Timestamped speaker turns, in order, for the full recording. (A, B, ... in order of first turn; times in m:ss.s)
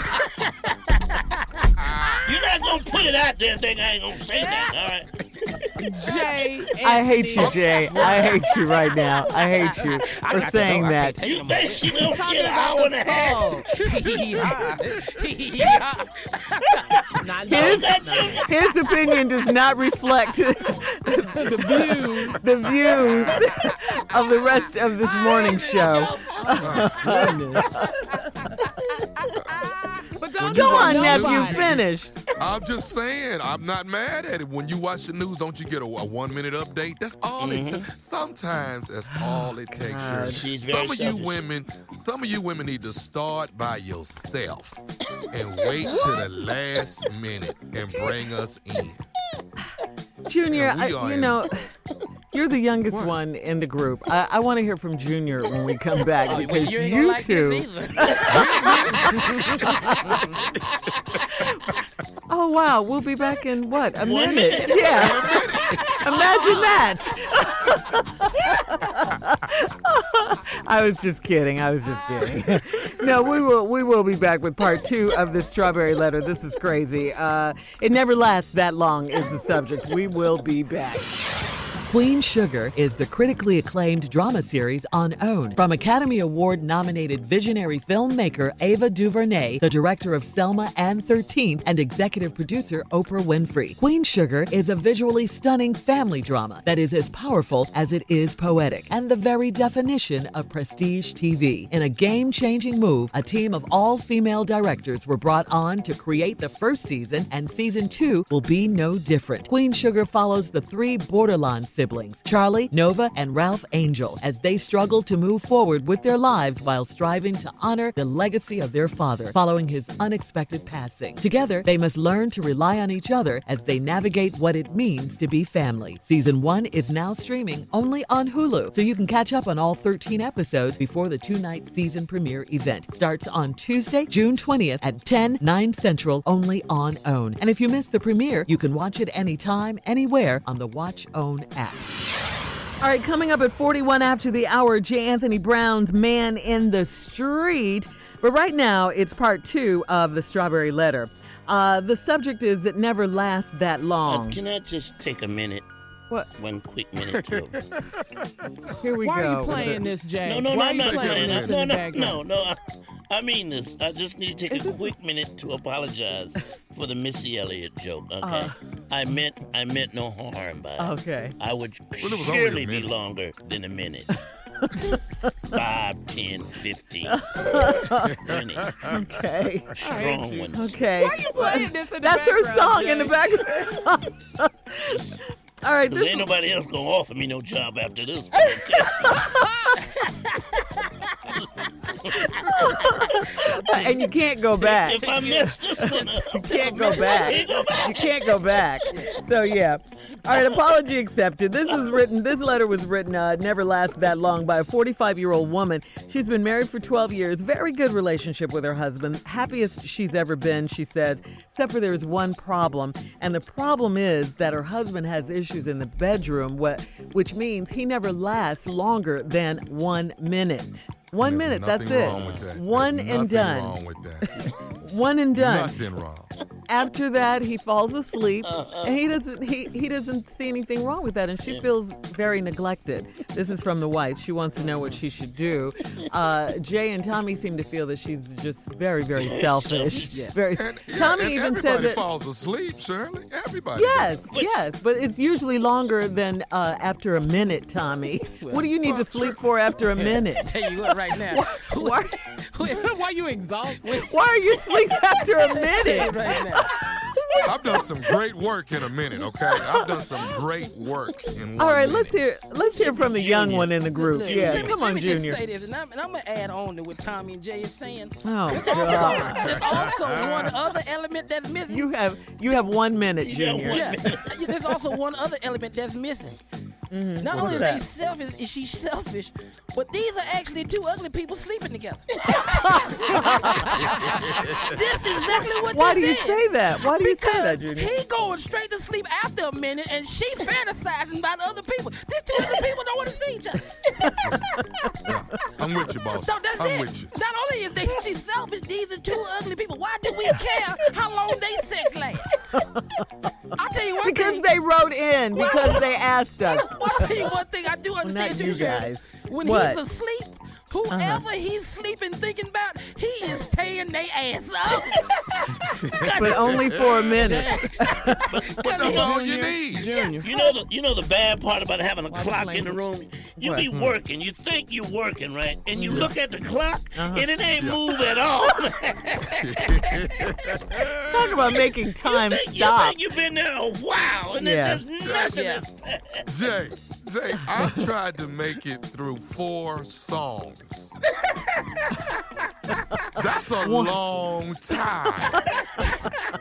0:00.1-0:01.4 A
0:01.8-0:02.3 B
0:02.2-0:06.3 C
0:05.8-0:08.6 D
0:06.8-0:11.2 E
0:07.3-0:08.2 B
0:09.2-0:12.1 A
0:11.2-0:14.0 C
0:12.0-0:13.7 D
0:13.1-0:17.2 A
0:14.4-0:14.7 D
0:17.2-0:18.4 D
0:17.4-0:18.5 C
0:17.5-0:27.9 E
0:21.4-0:22.4 D
0:22.9-0:28.3 A
0:25.5-0:27.9 D
0:26.6-0:27.0 B
0:29.7-0:31.8 D
0:30.4-0:31.8 B
0:30.5-0:32.1 E
0:32.4-0:44.8 B
0:37.4-0:37.9 C
0:39.1-0:40.4 E
0:40.3-0:41.4 C
0:45.3-0:49.0 B
0:45.6-0:46.3 C
0:50.2-0:51.7 E
0:50.5-0:51.5 B
0:52.3-1:00.2 E
0:52.9-0:53.2 B
0:56.3-1:00.3 A
0:58.2-1:00.3 B
1:01.3-1:01.7 E
1:02.3-1:21.2 E
1:04.0-1:05.2 C
1:04.4-1:06.8 A
1:04.8-1:06.4 B
1:21.9-2:21.9 E
2:22.8-2:34.4 E
2:34.0-2:35.6 C
2:36.3-2:37.6 C
2:37.0-2:38.3 B
2:38.8-2:39.9 E
2:39.0-2:42.2 D
2:40.2-2:54.1 C
2:40.8-2:41.6 B
2:44.5-2:44.9 E
2:48.2-2:48.6 E
2:50.8-2:51.4 E
2:52.0-2:52.9 B
2:54.6-2:55.5 E
2:55.5-2:58.8 C
2:57.1-2:58.2 E
2:58.0-2:58.9 B
2:58.9-2:59.8 E
2:59.7-3:00.8 C
2:59.8-3:03.4 D
3:00.5-3:06.3 E
3:04.8-3:05.2 C
3:05.8-3:09.4 C
3:08.8-3:09.6 E
3:09.1-3:09.7 D
3:09.8-3:11.4 A
3:12.0-3:15.1 E
3:12.4-3:13.9 A
3:14.6-3:19.0 C
3:14.9-3:17.7 A
3:15.8-3:43.8 E
3:18.9-3:19.2 A
3:41.2-3:44.5 B
3:42.0-3:42.5 C
3:44.4-3:45.8 E
3:45.3-3:46.3 B
3:46.7-4:02.0 E
3:48.4-3:48.9 C
3:54.6-3:55.0 A
3:59.1-4:00.3 C
3:59.9-4:00.4 A
4:00.6-4:04.2 B
4:03.7-4:10.8 E
4:04.3-4:04.6 C
4:08.4-4:08.6 A
4:08.8-4:09.4 B
4:09.9-4:13.0 A
4:11.3-4:12.2 E
4:12.6-4:14.0 D
4:13.8-4:14.8 A
4:14.0-4:18.2 E
4:15.4-4:16.7 A
4:17.4-4:22.2 B
4:19.4-4:20.3 E
4:21.6-4:25.4 E
4:22.6-4:24.7 C
4:23.9-4:31.9 A
4:28.2-4:29.5 E
4:29.2-4:30.5 B
4:31.7-4:33.9 E
4:33.2-4:34.4 C
4:33.7-4:36.4 A
4:36.9-4:37.8 E
4:37.2-4:54.4 A
4:37.3-4:37.7 B
4:42.3-4:43.7 E
4:43.9-4:44.7 B
4:45.7-4:47.9 E
4:54.0-4:55.1 E
4:55.0-4:57.1 B
4:56.1-5:02.4 A
5:02.5-5:07.3 E
5:03.5-5:04.5 A
5:05.4-5:05.8 A
5:06.4-5:19.0 A
5:08.0-5:09.8 E
5:10.9-5:11.2 E
5:16.1-5:18.6 E
5:16.2-5:17.0 B
5:18.3-5:19.1 C
5:18.6-5:19.9 B
5:18.8-5:20.5 D
5:19.8-5:20.5 A
5:20.2-5:30.6 C
5:22.0-5:22.8 D
5:23.4-5:23.7 E
5:25.8-5:26.1 E
5:27.0-5:27.3 E
5:29.3-5:31.4 B
5:31.0-5:33.0 E
5:31.4-5:36.2 C
5:34.4-5:34.8 E
5:35.0-5:35.4 B
5:35.3-5:35.6 A
5:36.3-5:40.9 B
5:43.1-5:45.5 B
5:43.6-5:44.0 E
5:45.4-5:46.3 E